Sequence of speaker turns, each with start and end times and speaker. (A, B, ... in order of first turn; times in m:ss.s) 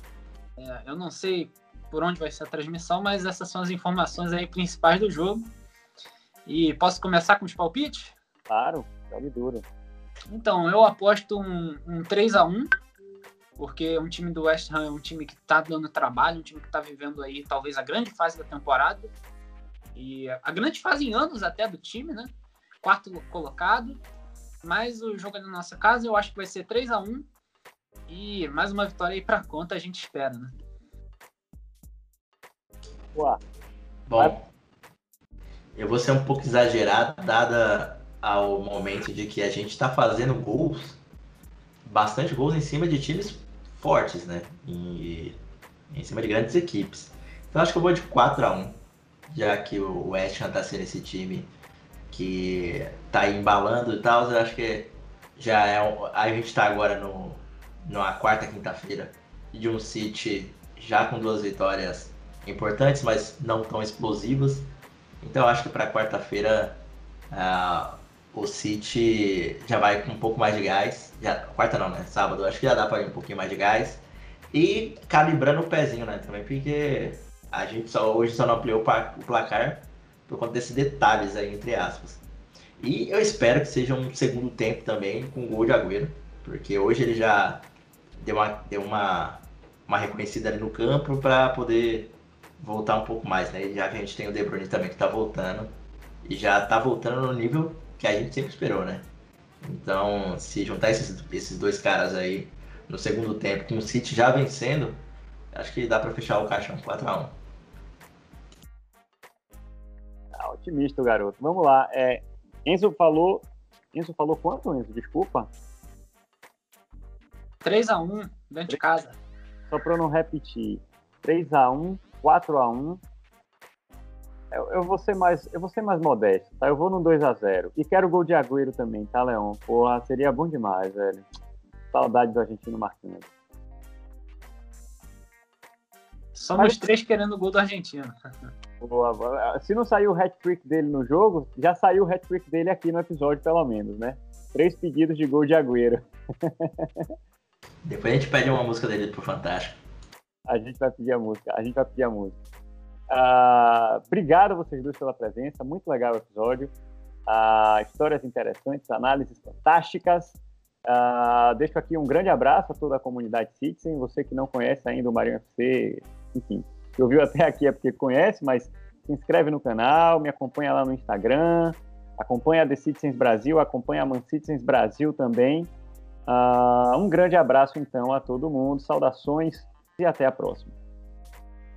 0:00.6-0:05.5 A
0:06.5-0:08.1 A
0:08.5-0:09.6 B
0:10.3-0:12.7 A
0:13.6-0:19.1 A
0:19.9-0:22.3 A
0:22.8-0:24.0 A
0:24.6-0:27.2 A
0:28.1-0:30.5 A
0:33.1-0:33.4 B
0:34.1-0:34.4 C
0:35.7-0:41.0 C
0:41.8-0:45.4 C
0:45.9-0:48.8 C
0:49.3-0:51.5 C
0:52.1-1:04.7 C
1:05.2-1:06.8 C
1:07.3-1:22.2 C
1:22.8-1:27.6 C
1:28.2-1:35.7 C
1:36.2-1:39.0 C
1:39.6-1:45.0 C
1:45.5-1:47.3 C
1:50.3-1:55.5 B
1:57.6-1:59.2 A
1:59.7-2:03.0 B
2:04.5-2:11.2 B
2:11.9-2:13.3 B
2:16.3-2:18.1 A
2:18.8-2:27.0 B
2:27.8-2:29.8 C
2:30.5-2:32.4 B
2:33.1-2:36.7 B
2:37.3-2:55.7 B
2:56.3-3:00.7 B